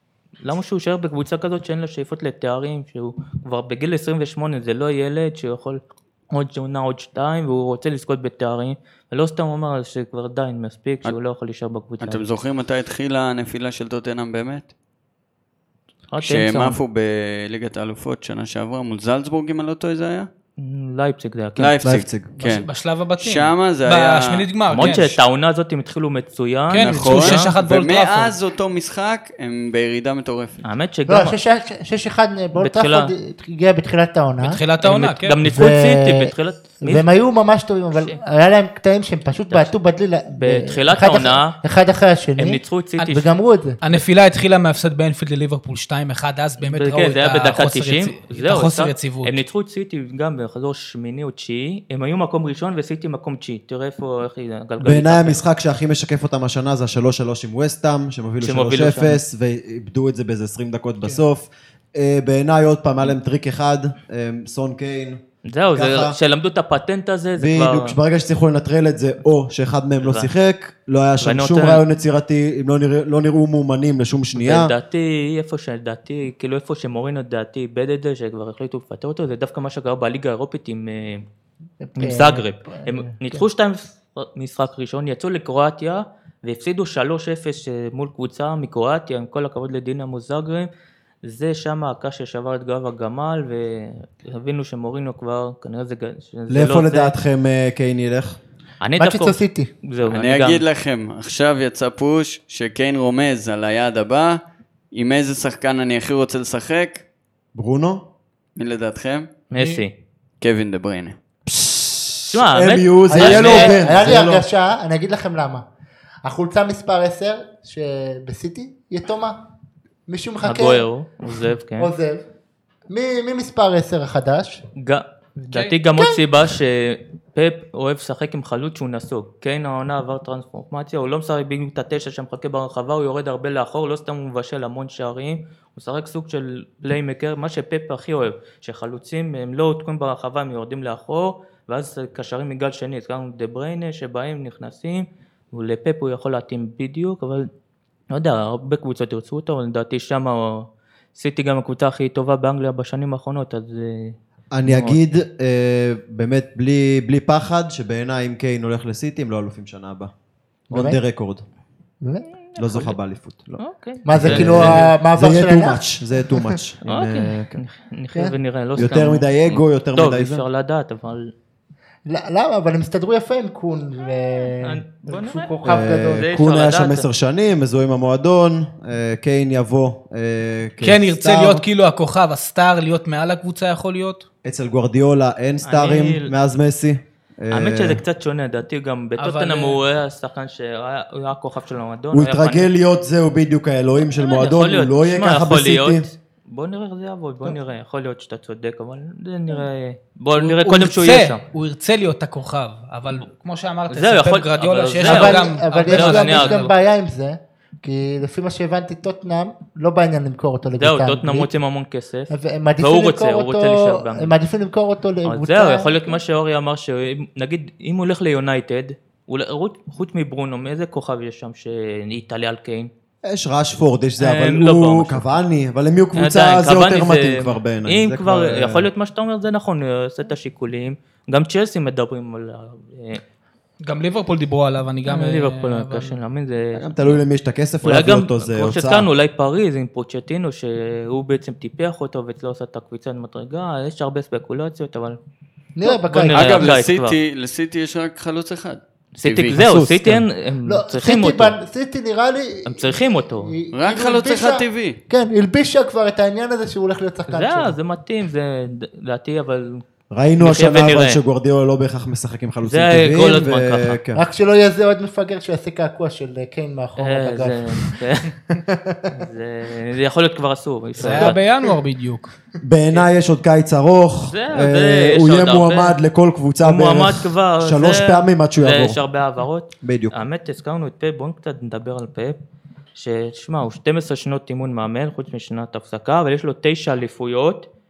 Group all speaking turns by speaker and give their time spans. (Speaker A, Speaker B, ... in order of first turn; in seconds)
Speaker A: 0.4-12.2, 16.1-16.8, 20.6-21.8, 24.7-27.5, 30.6-31.4, 32.5-33.1, 34.8-37.0, 40.3-41.6, 42.4-43.3, 46.6-55.4, 58.4-59.2, 65.5-68.0, 70.0-70.3, 71.2-71.8, 74.3-81.2, 82.0-90.7, 91.2-97.1, 98.8-100.6, 109.5-109.9, 112.3-113.8, 120.4-121.9, 124.8-147.5, 148.1-155.0, 162.6-162.9, 163.6-164.9, 166.8-171.3, 174.6-175.6, 176.1-177.1, 185.6-186.3, 187.5-192.7, 194.2-201.4, 203.9-206.7, 210.8-214.3, 215.2-222.9, 224.2-225.3, 226.2-233.2, 235.1-237.2, 237.8-245.2, 245.8-247.2, 249.2-251.6, 252.7-253.5, 257.3-259.8, 260.4-261.2, 262.6-264.0, 267.0-268.3, 269.1-271.4, 274.2-276.0, 276.6-282.4, 282.9-287.7
Speaker B: 12.0-14.7, 16.2-20.3, 21.6-25.1, 26.8-30.6, 100.0-104.4, 104.9-107.0, 108.6-109.3, 110.4-111.2, 246.3-249.6, 253.7-255.0
Speaker C: 21.8-22.3, 54.8-65.2, 65.7-66.2, 67.4-74.7, 96.5-98.4, 107.5-108.0, 111.5-114.5, 154.5-160.1, 160.7-161.4, 162.6-163.6, 164.2-167.6, 168.8-170.4, 175.6-181.6, 184.4-188.0, 192.1-196.1, 223.2-228.9, 236.7-239.1, 249.5-250.2, 260.1-264.2, 272.6-279.0, 279.8-280.2
Speaker D: 22.4-25.1, 26.7-28.3, 34.4-35.4, 43.8-49.4, 109.6-109.8, 125.5-125.8, 180.8-184.2, 189.2-189.8, 200.3-206.6, 233.8-236.2, 271.0-272.3
Speaker E: 31.1-34.6, 35.4-43.8, 81.8-83.4, 99.0-99.7, 113.1-115.6, 116.2-119.4, 120.1-122.2, 122.9-124.6, 160.7-161.0, 162.0-162.3, 164.1-165.8, 172.1-176.2, 205.0-211.5, 212.3-216.2, 245.8-246.7, 250.7-257.8, 264.1-267.9, 268.5-269.1